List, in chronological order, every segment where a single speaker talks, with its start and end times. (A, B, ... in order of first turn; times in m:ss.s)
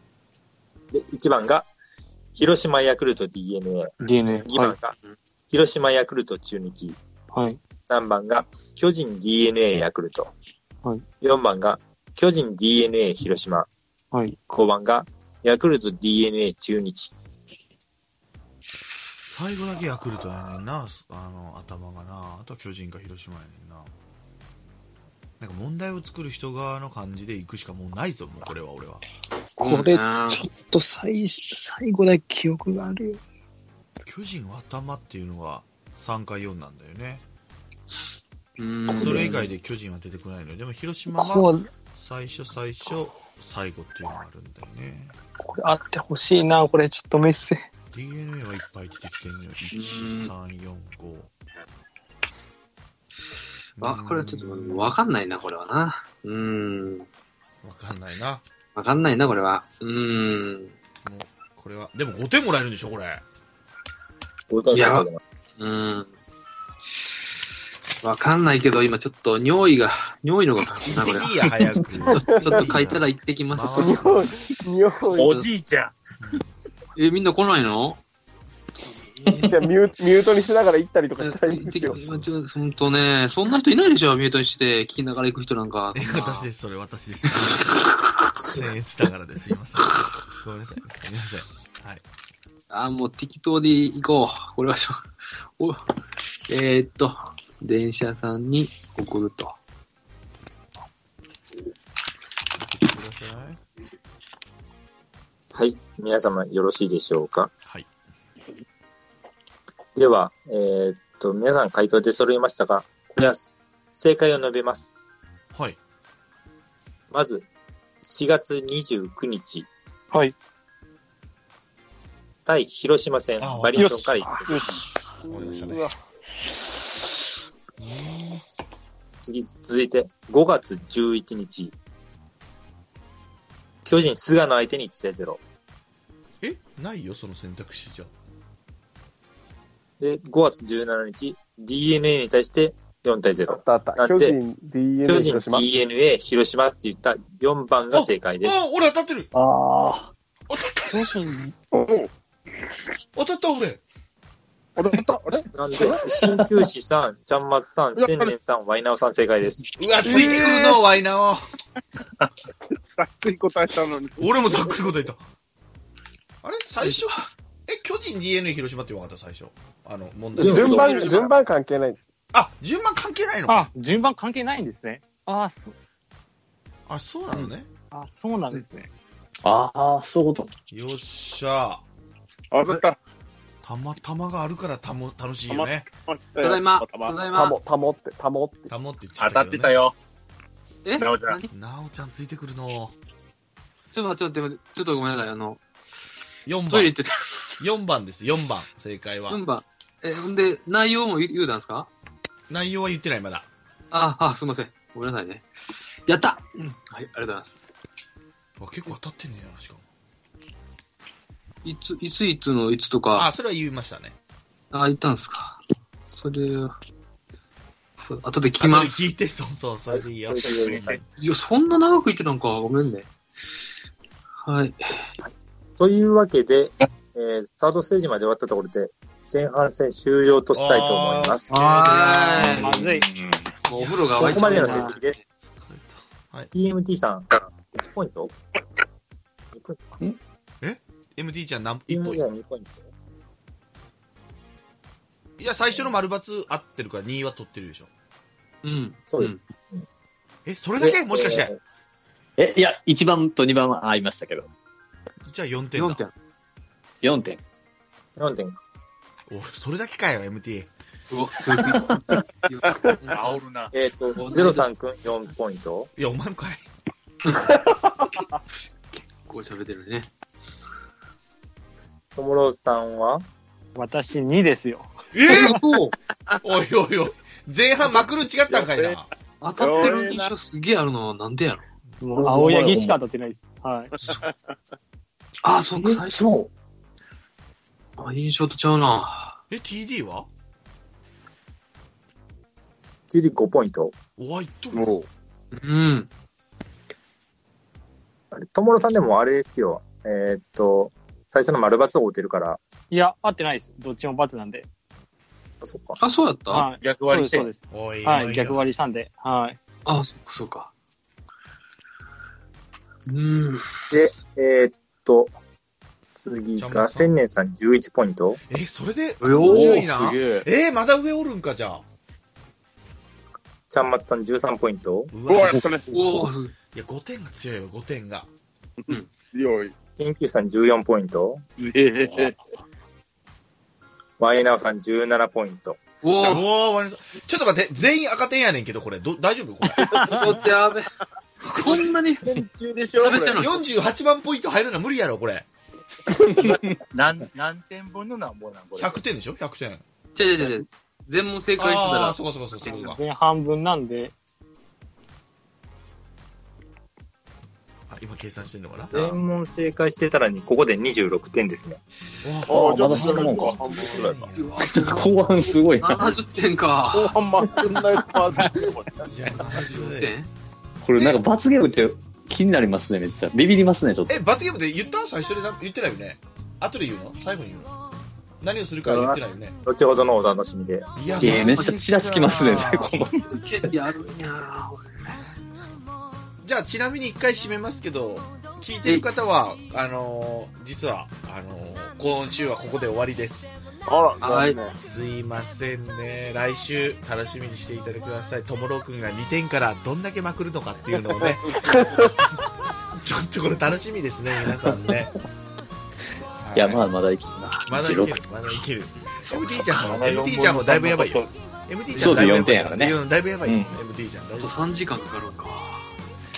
0:00.9-0:01.7 A
0:02.4-0:05.0 A
0:04.0-0:04.8 B
0:05.5-0:07.0 A
0:07.3-0:07.6 B
0:07.9-0:10.3 A
0:11.2-0:13.7 A
0:14.5-0:17.1 A
0:19.2-0:23.9 C
0:25.4-0:29.0 C
0:29.6-0:30.5 D
0:29.6-0:33.2 B
0:34.0-0:37.2 C
0:38.6-0:39.5 D
0:39.0-0:45.1 C
0:41.1-0:41.7 B
0:45.4-0:47.6 B
0:47.9-0:51.3 C
0:49.7-0:50.3 D
0:53.8-0:54.9 C
0:53.8-0:57.1 D
0:57.6-0:58.4 C
0:58.7-1:00.8 D
1:01.0-1:03.2 C
1:04.5-1:05.2 A
1:04.7-1:06.1 D
1:08.0-1:14.0 D
1:10.9-1:14.3 C
1:12.3-1:12.6 E
1:13.8-1:15.4 E
1:15.2-1:15.5 D
1:15.2-1:16.0 F
1:17.0-1:18.0 D
1:18.9-1:19.7 D
1:19.3-1:22.0 E
1:21.2-1:26.5 D
1:21.8-1:22.3 C
1:25.9-1:27.8 C
1:27.2-1:27.7 D
1:28.4-1:32.0 C
1:32.7-1:35.0 D
1:35.6-1:35.8 D
1:36.5-1:39.6 D
1:42.6-1:43.6 C
1:45.5-1:47.5 A
1:50.0-1:54.9 A
1:55.5-1:55.8 C
1:57.1-1:57.4 A
1:58.0-1:59.7 A
2:02.4-2:04.8 A
2:03.4-2:04.2 C
2:03.8-2:04.7 B
2:05.3-2:05.9 C
2:07.8-2:08.4 C
2:09.2-2:11.7 A
2:13.8-2:15.4 A
2:16.4-2:18.1 C
2:20.0-2:24.4 A
2:23.5-2:25.6 E
2:25.0-2:28.6 A
2:27.9-2:29.3 C
2:29.3-2:30.1 G
2:30.5-2:31.1 C
2:31.7-2:32.1 H
2:33.1-2:33.8 C
2:34.8-2:35.5 H
2:35.5-2:39.7 A
2:38.0-2:38.3 H
2:39.8-2:41.4 C
2:40.0-2:40.8 H
2:42.9-2:44.8 H
2:44.2-2:45.2 C
2:46.4-2:50.9 C
2:46.8-2:47.2 D
2:50.4-2:51.0 A
2:50.4-2:52.0 E
2:50.4-2:51.4 D
2:52.3-2:53.7 C
2:53.5-2:55.7 B
2:56.9-2:57.7 C
2:57.9-2:58.9 B
2:59.4-3:00.5 G
3:00.7-3:01.8 C
3:02.5-3:03.0 H
3:03.6-3:05.9 C
3:05.5-3:07.2 H
3:06.4-3:07.6 D
3:07.3-3:08.7 E
3:08.7-3:09.7 C
3:09.2-3:09.9 F
3:10.8-3:11.5 D
3:11.0-3:11.4 F
3:11.5-3:12.9 C
3:13.9-3:15.6 D
3:16.4-3:17.0 C
3:16.6-3:17.6 D
3:17.6-3:19.4 C
3:19.3-3:21.9 D
3:22.5-3:23.4 C
3:23.9-3:25.5 D
3:26.0-3:27.7 D
3:28.6-3:29.8 C
3:31.6-3:33.3 D
3:33.1-3:34.2 C
3:34.7-3:35.6 D
3:36.1-3:36.7 D
3:38.0-3:39.2 D
3:38.6-3:40.9 C
3:39.9-3:41.0 A
3:40.6-3:41.0 F
3:41.2-3:43.1 D
3:44.4-3:45.0 D
3:45.2-3:51.5 A
3:50.5-3:52.7 C
3:51.5-3:52.8 D
3:51.8-3:53.0 B
3:53.6-3:55.2 D
3:53.7-3:54.8 C
3:54.2-3:55.2 A
3:55.4-3:56.5 C
3:56.5-3:58.3 A
3:59.5-3:59.8 A
4:00.6-4:02.2 C
4:01.9-4:02.8 A
4:05.4-4:07.9 C
4:08.6-4:09.4 D
4:09.1-4:09.8 A
4:10.4-4:11.5 C
4:10.8-4:11.5 A
4:12.4-4:14.5 G
4:15.2-4:16.0 C
4:15.7-4:16.1 D
4:17.0-4:17.4 G
4:18.2-4:18.6 A
4:19.3-4:20.7 C
4:21.1-4:23.4 D
4:23.1-4:23.7 F
4:23.7-4:25.9 A
4:24.2-4:24.7 D
4:26.0-4:26.6 C
4:27.2-4:27.6 D
4:28.9-4:30.1 D
4:32.2-4:33.2 A
4:33.8-4:34.9 B
4:35.1-4:35.6 C
4:35.3-4:36.0 D
4:36.4-4:39.1 C
4:37.8-4:39.0 H
4:39.4-4:41.6 D
4:39.6-4:40.3 H
4:42.0-4:43.9 B
4:42.2-4:43.0 G
4:45.4-4:46.2 D
4:45.7-4:46.5 G
4:48.0-4:49.4 D
4:49.5-4:50.3 C
4:53.1-4:53.9 A
4:54.2-4:55.0 C
4:54.7-4:55.1 H
4:55.5-4:56.1 D
4:58.3-5:02.6 A
5:02.9-5:04.7 B
5:05.6-5:06.0 A
5:06.0-5:06.7 D
5:06.5-5:09.6 B
5:06.8-5:07.5 F
5:07.7-5:08.7 C
5:09.8-5:10.7 D
5:13.1-5:13.7 D
5:13.9-5:15.3 A
5:16.2-5:18.4 A
5:16.6-5:17.1 C
5:18.5-5:21.8 C
5:19.2-5:20.1 D
5:19.4-5:20.4 H
5:23.7-5:25.1 A
5:25.1-5:25.7 C
5:25.3-5:26.3 H
5:25.9-5:26.5 D
5:26.7-5:28.3 C
5:28.8-5:29.7 H
5:30.0-5:31.4 A
5:31.6-5:32.4 H
5:34.2-5:35.8 A
5:36.0-5:36.5 D
5:36.2-5:40.4 C
5:39.9-5:40.9 D
5:41.5-5:42.4 D
5:41.5-5:43.4 H
5:43.0-5:43.6 D
5:43.4-5:45.5 C
5:46.4-5:49.0 F
5:48.8-5:49.8 C
5:50.1-5:52.2 D
5:51.5-5:53.0 C
5:52.6-5:54.1 B
5:57.9-5:59.0 C
5:58.9-6:01.8 A
6:02.2-6:04.7 C
6:02.4-6:04.3 H
6:02.5-6:03.7 G
6:04.4-6:07.2 D
6:04.7-6:06.2 G
6:06.9-6:09.1 H
6:09.1-6:10.1 C
6:09.4-6:10.3 D
6:10.8-6:14.2 G
6:14.1-6:17.7 C
6:18.4-6:19.6 C
6:18.9-6:20.9 A
6:21.0-6:23.0 C
6:21.0-6:21.9 D
6:21.2-6:23.7 G
6:23.3-6:25.3 D
6:26.4-6:33.5 C
6:28.8-6:29.1 D
6:33.8-6:34.8 H
6:34.2-6:34.6 D
6:34.7-6:42.1 C
6:41.1-6:41.7 H
6:43.0-6:45.1 C
6:46.4-6:46.8 C
6:46.5-6:48.2 G
6:47.6-6:54.6 C
6:49.3-6:51.3 F
6:51.9-6:52.3 D
6:52.0-6:53.8 G
6:54.4-6:55.9 D